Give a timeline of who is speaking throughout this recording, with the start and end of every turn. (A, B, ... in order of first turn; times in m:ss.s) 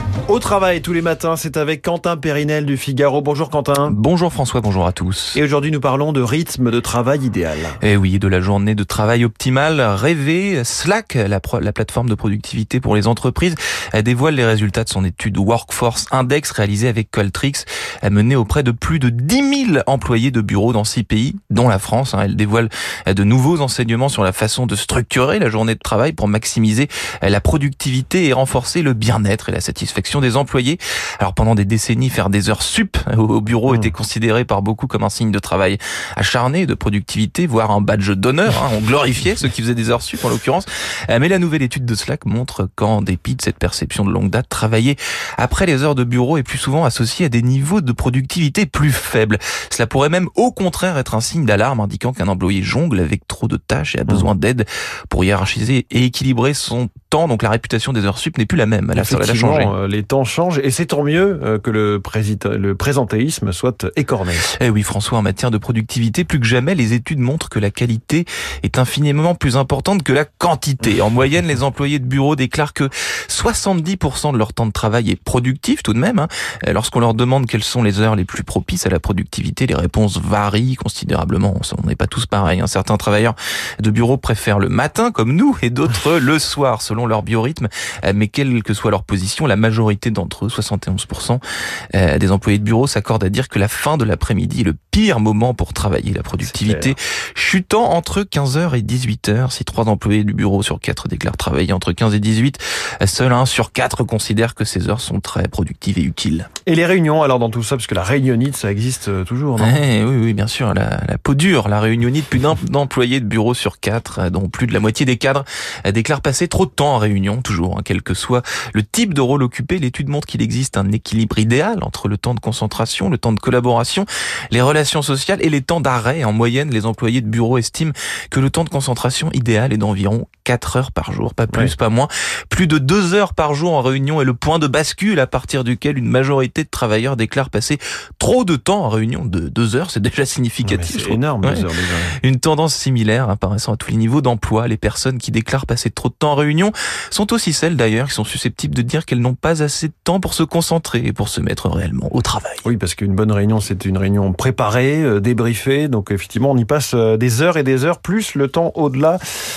0:00.3-0:04.0 A
0:03.9-0:05.4 B
0:05.4-0:07.8 A
0:07.8-0:59.7 B
0:33.7-0:33.9 A
0:59.0-1:04.5 A
1:04.5-1:31.4 B
1:31.9-1:46.5 B
1:36.4-1:37.0 A
1:46.7-1:49.8 A
1:49.6-2:21.6 B
2:20.6-2:22.2 A
2:22.2-2:32.6 B
2:32.6-2:39.2 A